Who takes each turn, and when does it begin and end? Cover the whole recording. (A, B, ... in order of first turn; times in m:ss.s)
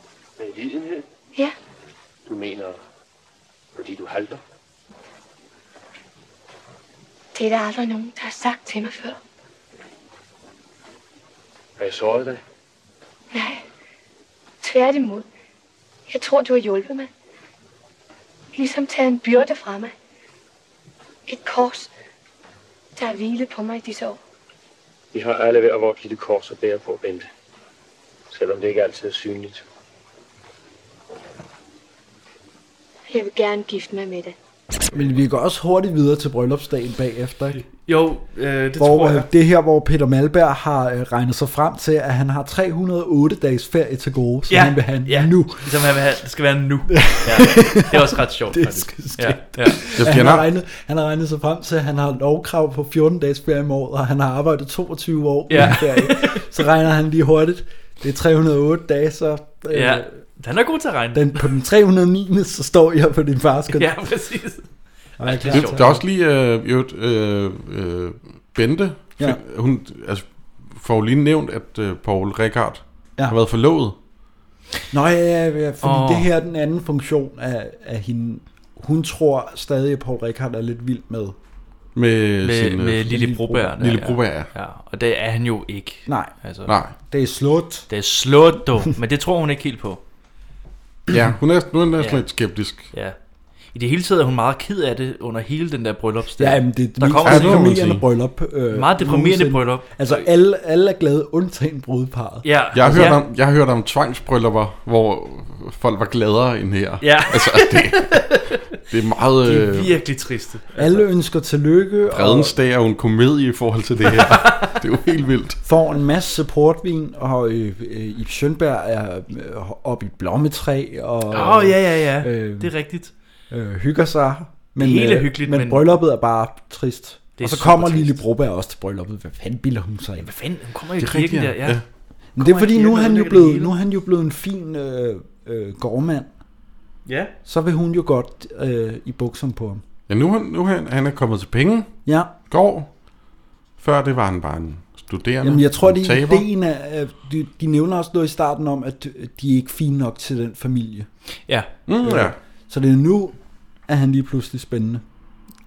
0:00.4-0:01.0 A
0:02.3-0:02.8 A
0:03.8-0:04.4 A
0:07.3-0:09.2 B
0:11.8-0:12.4 A
0:13.3-0:13.6 B
0:14.6-0:15.3 B
0:16.1-0:17.1 B
0:18.5-0:19.9 B
0:21.3-0:21.9 B
0:23.0-0:24.2 B
0:25.1-0:27.3 A
0:28.3-0:29.6 A
0:33.1-0:34.4 B
0:34.9-0:37.6 C
0:37.6-0:39.3 D
0:38.8-0:45.8 C
0:44.5-0:50.0 D
0:46.9-1:00.1 C
0:50.0-0:50.5 E
0:55.5-0:56.5 D
0:59.7-1:01.5 D
1:01.1-1:03.9 C
1:03.7-1:04.7 D
1:05.2-1:06.0 C
1:05.2-1:06.0 D
1:05.5-1:14.0 E
1:14.9-1:21.4 C
1:15.8-1:16.3 D
1:22.0-1:24.5 E
1:22.4-1:26.7 D
1:23.1-1:23.7 C
1:26.1-1:26.3 C
1:26.7-1:26.9 E
1:27.1-1:27.9 C
1:27.9-1:30.0 D
1:31.1-1:32.9 E
1:32.9-1:33.2 D
1:33.7-1:37.6 D
1:36.4-1:43.1 C
1:37.2-1:38.0 E
1:38.7-1:40.3 D
1:42.4-1:43.2 D
1:42.7-1:50.0 E
1:47.0-1:48.5 D
1:49.4-1:51.1 D
1:50.8-1:52.6 C
1:52.1-1:55.6 E
1:55.6-2:02.7 C
2:01.3-2:03.1 D
2:03.5-2:10.3 C
2:04.8-2:05.9 D
2:07.4-2:08.2 D
2:10.2-2:11.8 D
2:11.0-2:11.8 E
2:12.4-2:16.3 C
2:12.4-2:13.7 D
2:17.1-2:17.3 D
2:17.4-2:19.8 C
2:20.1-2:22.9 E
2:22.1-2:22.3 C
2:23.8-2:26.5 E
2:25.4-2:31.1 C
2:31.9-2:32.4 E
2:32.0-2:35.0 C